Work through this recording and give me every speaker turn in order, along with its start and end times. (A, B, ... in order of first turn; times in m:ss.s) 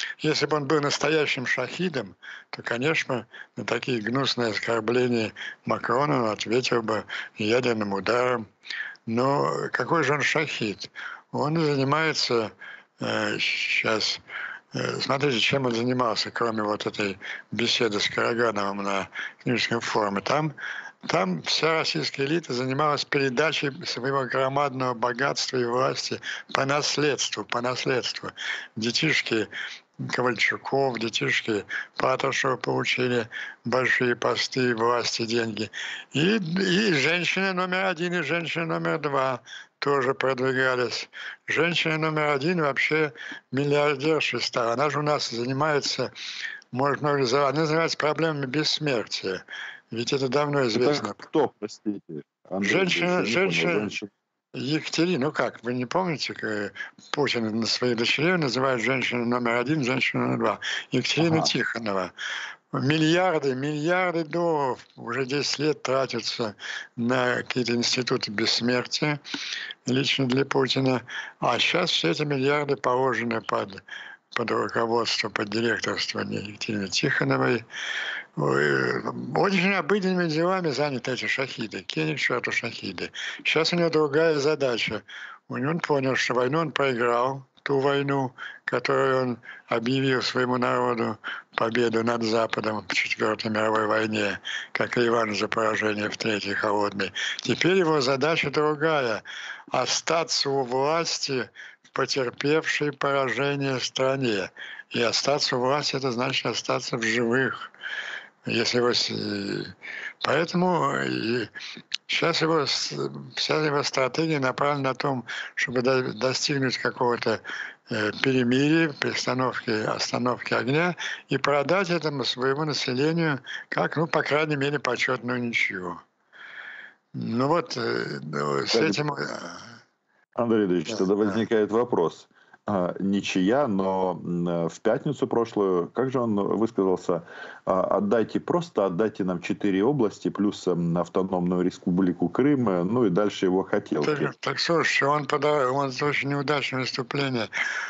0:00.2-0:08.4 A
0:09.1-0:14.2 A
0:14.7-0:20.5 A
0:21.0-0:29.5 A
0:30.0-0:46.1 A
0:46.7-0:51.2 A
0:50.7-0:54.1 B
0:52.6-0:53.9 A
0:54.5-1:02.1 A
1:01.2-1:01.5 B
1:02.7-1:09.2 A
1:09.8-1:17.6 A
1:18.4-1:47.7 A
1:48.4-1:51.5 A
1:52.1-2:06.0 A
2:07.1-2:09.7 A
2:08.7-2:09.0 B
2:10.4-2:24.3 B
2:24.0-2:27.5 A